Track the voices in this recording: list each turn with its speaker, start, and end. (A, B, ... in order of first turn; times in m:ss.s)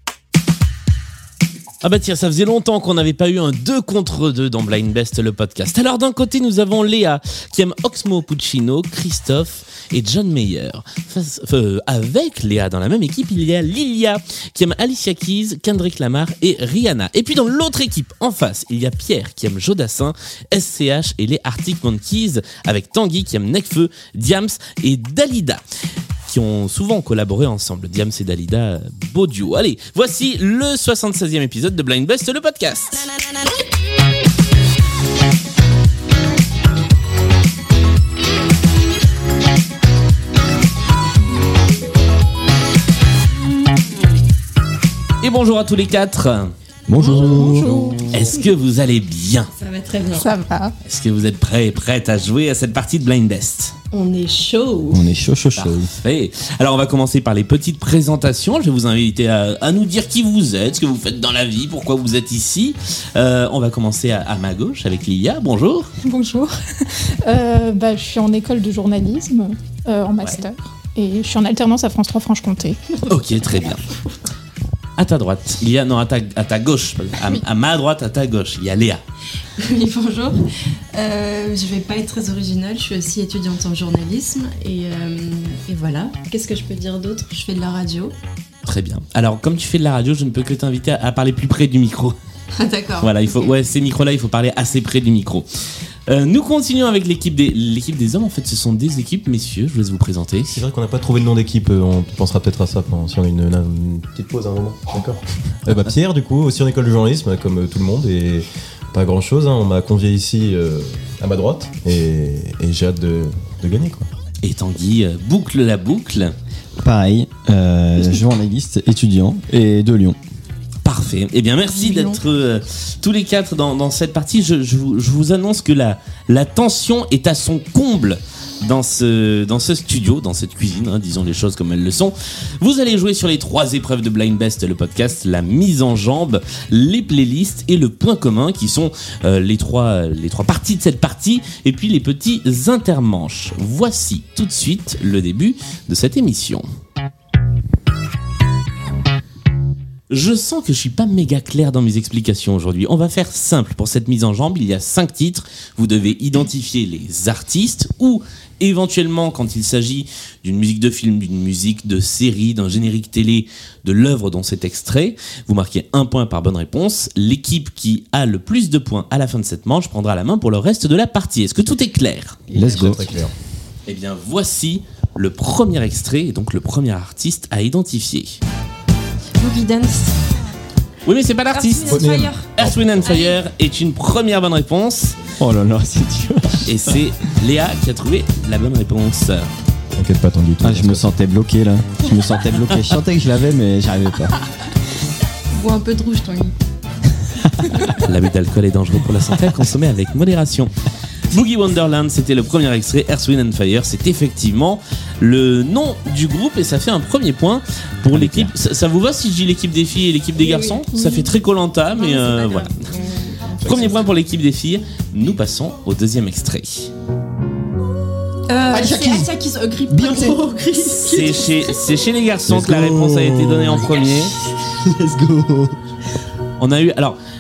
0:01.8-0:25.6 A
0:26.3-0:33.1 A
0:45.2-0:46.5 A
0:46.9-0:48.0 B
0:47.0-0:48.1 C
0:47.1-0:47.6 D
0:48.1-0:49.5 A
0:49.6-0:50.3 D
0:50.1-0:50.7 C
0:50.8-0:53.8 A
0:53.9-0:55.0 D
0:54.9-0:55.9 B
0:55.6-1:05.9 A
1:06.0-1:13.0 C
1:13.1-1:13.8 A
1:15.0-1:19.0 A
1:19.6-1:28.2 D
1:28.6-1:32.2 A
1:32.6-1:33.2 D
1:33.0-1:35.5 A
1:36.1-1:40.6 A
1:40.5-1:54.1 E
1:54.4-1:56.4 A
1:56.8-2:00.2 B
2:00.8-2:26.6 A
2:01.7-2:02.2 D
2:30.1-2:52.4 A
2:52.5-2:53.3 E
2:52.5-2:53.1 B
2:53.9-2:58.4 A
2:59.4-3:00.2 D
3:01.0-3:05.2 A
3:01.5-3:02.5 D
3:01.8-3:03.3 E
3:03.1-3:03.4 D
3:05.4-3:07.0 B
3:06.7-3:09.5 A
3:10.0-3:11.1 E
3:10.6-3:14.3 B
3:15.5-3:16.6 D
3:18.0-3:20.7 A
3:21.3-3:32.9 A
3:28.1-3:28.5 B
3:30.4-3:31.3 D
3:32.0-3:34.0 D
3:33.6-3:34.1 E
3:33.6-3:36.9 A
3:38.5-3:41.7 D
3:38.7-3:39.3 B
3:39.9-3:40.5 B
3:41.0-3:44.3 A
3:42.5-3:44.0 B
3:44.8-3:45.8 B
3:46.6-3:47.2 A